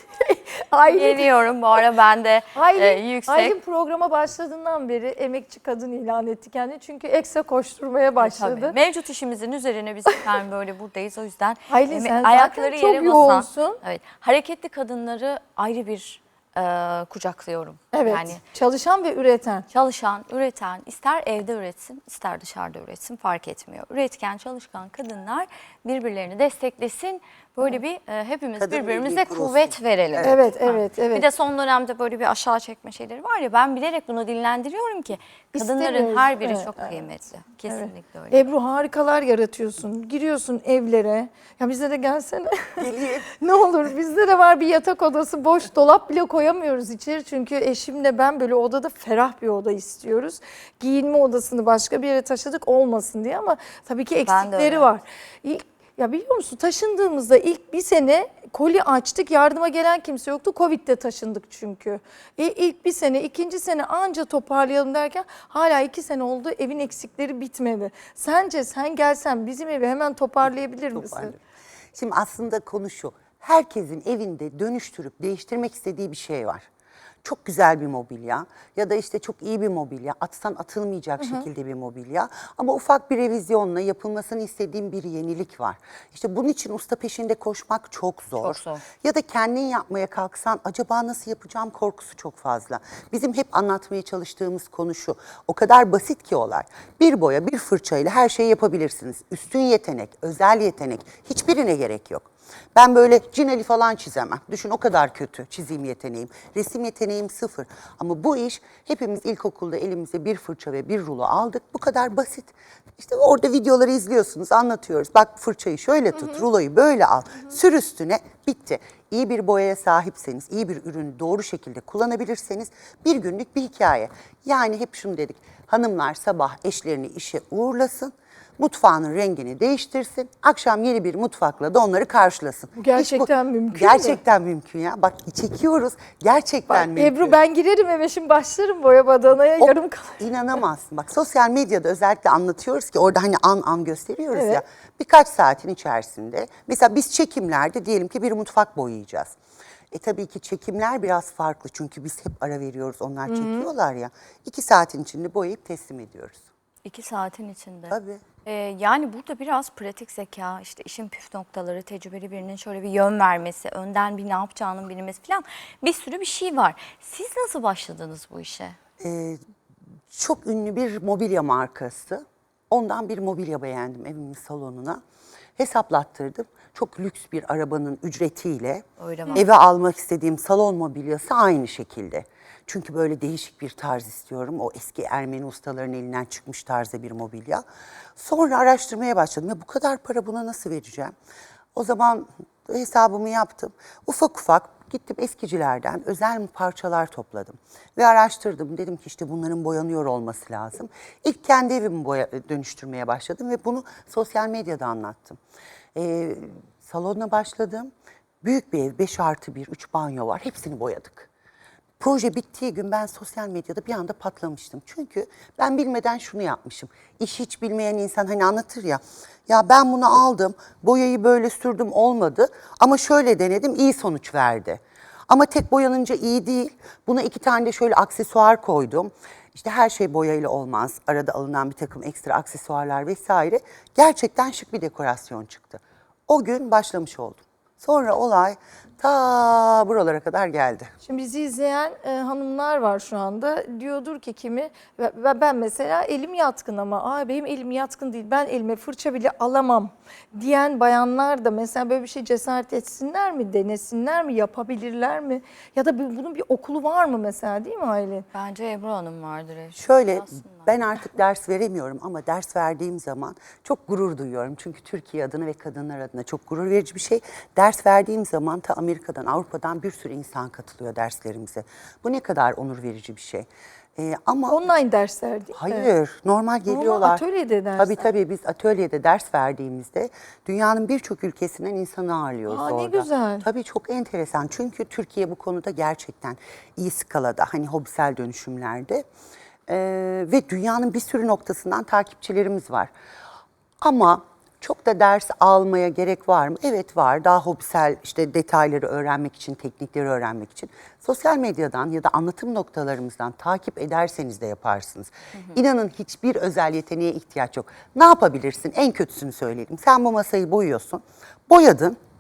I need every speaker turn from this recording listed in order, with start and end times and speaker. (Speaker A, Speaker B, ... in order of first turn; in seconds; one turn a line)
Speaker A: 0.1-1.3
Speaker B: 0.9-3.5
Speaker A: 2.5-8.8
Speaker B: 8.2-18.4
Speaker A: 11.7-13.8
Speaker A: 17.9-19.7
Speaker B: 19.7-38.5
Speaker C: 28.6-30.4
Speaker A: 30.2-31.3
Speaker A: 35.5-37.0
Speaker A: 37.7-71.3
Speaker C: 42.8-43.3
Speaker B: 54.3-54.9
Speaker C: 70.9-71.4
Speaker C: 71.9-76.7
Speaker C: 77.2-137.4
Speaker A: 81.2-81.5
Speaker B: 88.4-88.8
Speaker A: 132.8-134.2
Speaker A: 136.7-140.2
Speaker C: 139.6-149.4
Speaker A: 144.3-144.6
Speaker C: 149.9-156.5
Speaker A: 153.3-153.7
Speaker B: 156.8-168.8
Speaker C: 157.9-158.2
Speaker C: 169.0-169.4
Speaker C: 170.1-175.0
Speaker C: 175.6-187.6
Speaker B: 179.0-179.4
Speaker C: 188.2-191.1
Speaker C: 191.8-205.4
Speaker C: 205.9-207.9
Speaker C: 208.4-211.3
Speaker C: 212.0-240.9
Speaker A: 241.0-258.3
Speaker B: 258.3-260.7
Speaker C: 259.8-274.6
Speaker A: 274.5-275.9
Speaker C: 275.5-277.2
Speaker A: 276.7-278.1
Speaker C: 277.8-289.1
Speaker A: 282.5-283.5
Speaker C: 289.7-292.9
Speaker C: 293.8-312.0